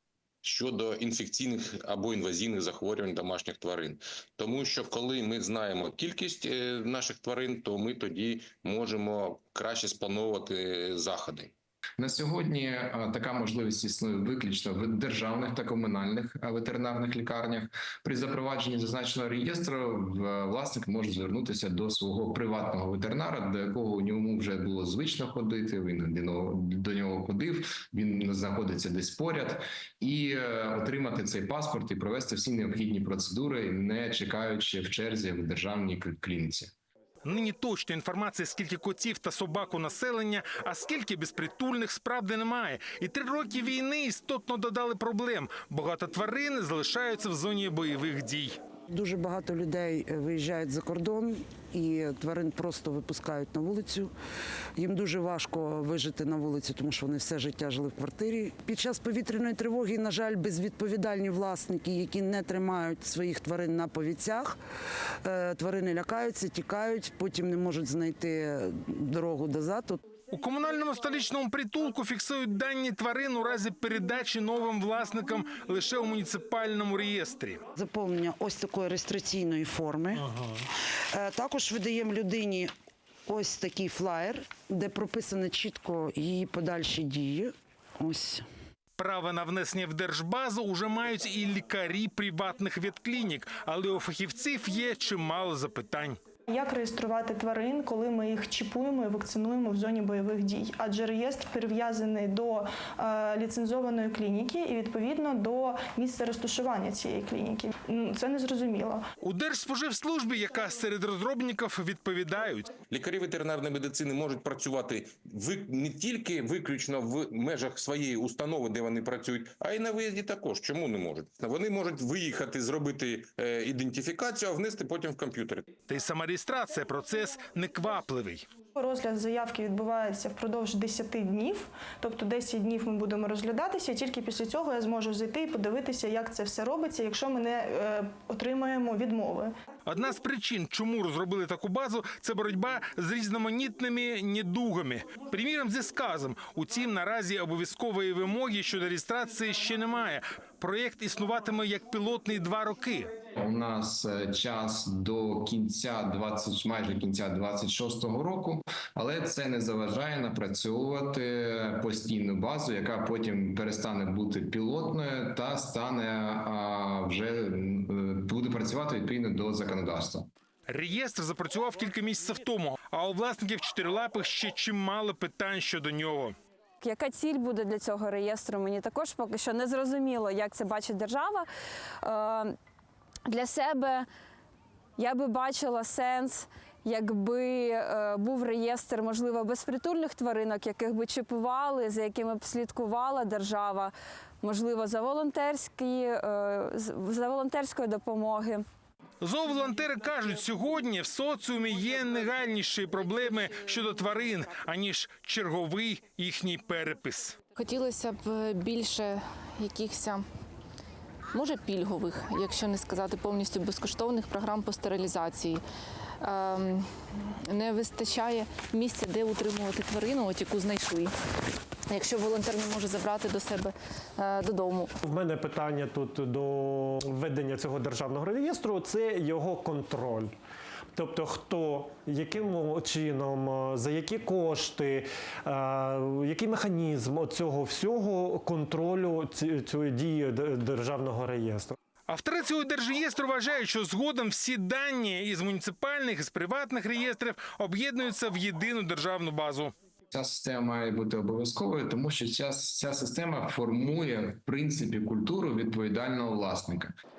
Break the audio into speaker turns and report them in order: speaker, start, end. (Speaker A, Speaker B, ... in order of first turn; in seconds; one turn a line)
Speaker A: 0.4-11.5
Speaker B: 12.0-36.7
Speaker C: 37.2-48.6
Speaker D: 48.9-54.1
Speaker D: 54.8-64.6
Speaker D: 65.2-70.0
Speaker C: 70.3-77.6
Speaker D: 77.8-80.4
Speaker D: 81.1-82.7
Speaker D: 83.3-88.5
Speaker C: 89.0-96.2
Speaker E: 96.5-109.0
Speaker C: 109.2-112.7
Speaker A: 112.9-125.7
Speaker C: 125.9-128.5
Speaker E: 128.8-139.5
Speaker C: 139.9-153.1
Speaker B: 153.3-170.3
Speaker C: 170.7-176.3
Speaker F: 176.8-181.5
Speaker F: 182.0-182.5
Speaker F: 183.3-184.1
Speaker F: 185.0-198.6
Speaker C: 199.2-207.4
Speaker G: 207.6-210.2
Speaker G: 211.3-215.6
Speaker G: 216.2-221.1
Speaker G: 221.9-224.9
Speaker H: 225.0-230.3
Speaker H: 230.9-241.8
Speaker C: 242.1-249.7
Speaker B: 250.1-256.9